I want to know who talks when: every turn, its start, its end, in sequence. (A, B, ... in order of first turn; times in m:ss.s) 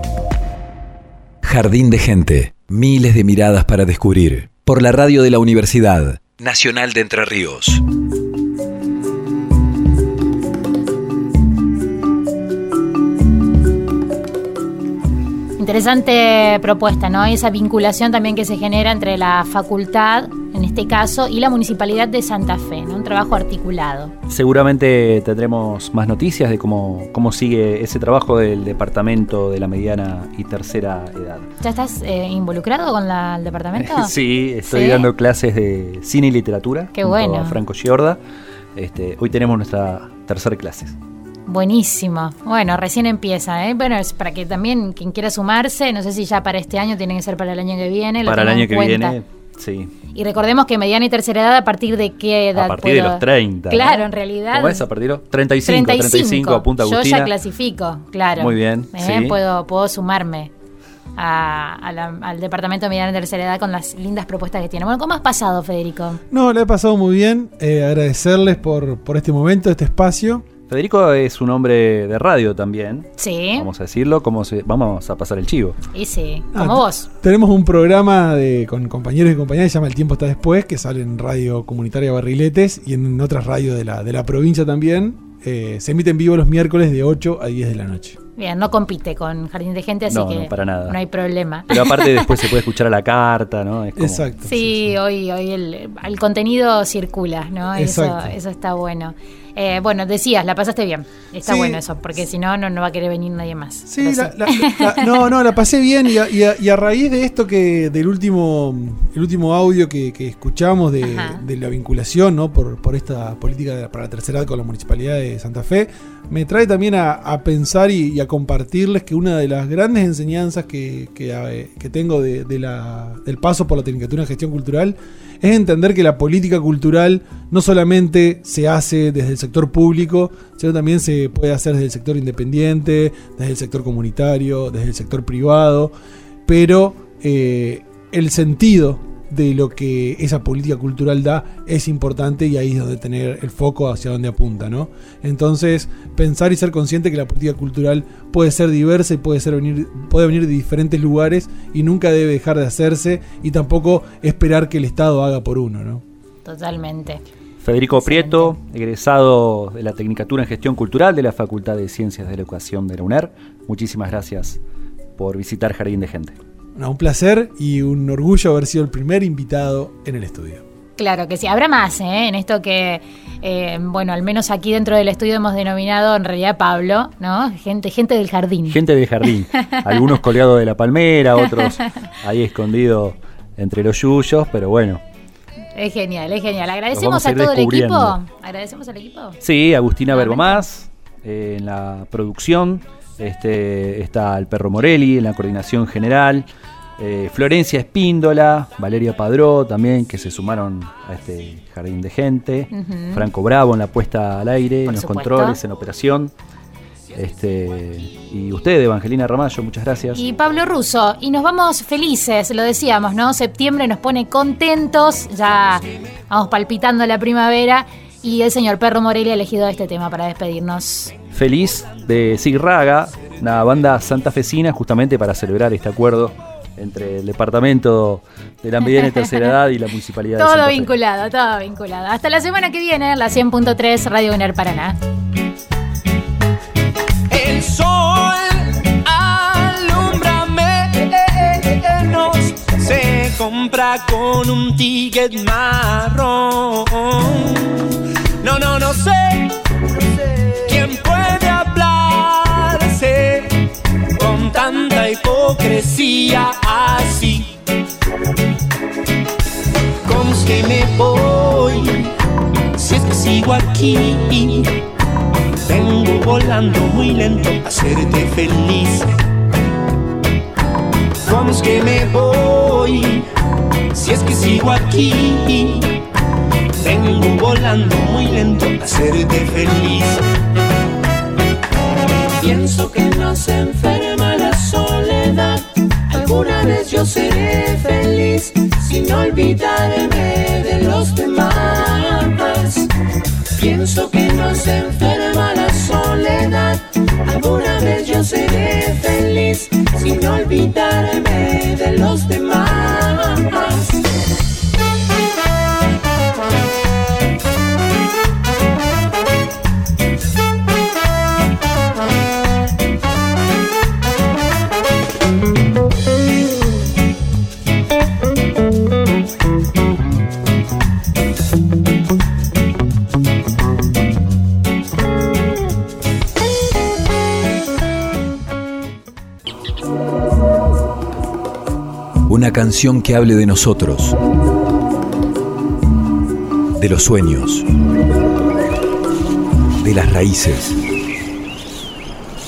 0:01.4-0:07.8 A
0:15.6-0:24.1 B
0:24.3-0:31.5 C
0:31.6-0:34.1 B
0:33.8-0:38.2 C
0:34.7-0:35.1 B
0:37.0-0:37.6 B
0:38.8-0:41.0 C
0:41.5-0:49.2 B
0:48.3-0:49.9 C
0:50.1-0:54.8 B
0:52.6-0:57.3 C
0:55.6-1:00.5 B
0:58.4-0:59.4 C
1:01.2-1:06.2 B
1:06.3-1:10.4 D
1:10.7-1:15.8 C
1:13.2-1:13.7 B
1:15.9-1:17.1 B
1:16.5-1:28.2 D
1:28.4-1:32.4 B
1:30.1-1:31.0 C
1:31.7-1:34.3 C
1:34.0-1:34.8 D
1:34.4-1:45.3 B
1:37.8-1:38.4 D
1:41.4-1:41.8 D
1:43.9-2:15.9 D
1:51.0-1:51.4 B
2:16.5-2:36.0 D
2:36.4-2:37.2 B
2:37.6-2:44.6 C
2:38.0-2:38.5 B
2:45.2-2:46.4 C
2:46.8-2:50.6 D
2:51.0-2:58.8 B
2:58.7-3:05.0 C
2:59.6-3:00.2 B
3:01.4-3:01.8 B
3:05.8-3:09.4 B
3:06.9-3:08.2 C
3:09.4-3:16.5 C
3:10.1-3:10.7 B
3:17.0-3:26.3 C
3:22.7-3:23.3 B
3:24.9-3:25.6 B
3:27.2-3:30.2 C
3:30.2-3:41.1 B
3:41.3-3:50.9 C
3:48.8-3:49.5 B
3:50.4-3:55.0 B
3:57.3-4:09.6 E
4:10.6-4:13.6 E
4:14.2-4:17.6 E
4:20.0-4:22.1 E
4:22.8-4:24.8 E
4:25.7-4:29.2 E
4:31.2-4:33.3 E
4:33.9-4:36.0 E
4:36.8-4:40.2 E
4:42.4-4:52.9 E
4:53.6-5:04.0 E
5:32.3-5:34.2 A
5:36.8-5:37.7 A
5:39.8-5:40.8 A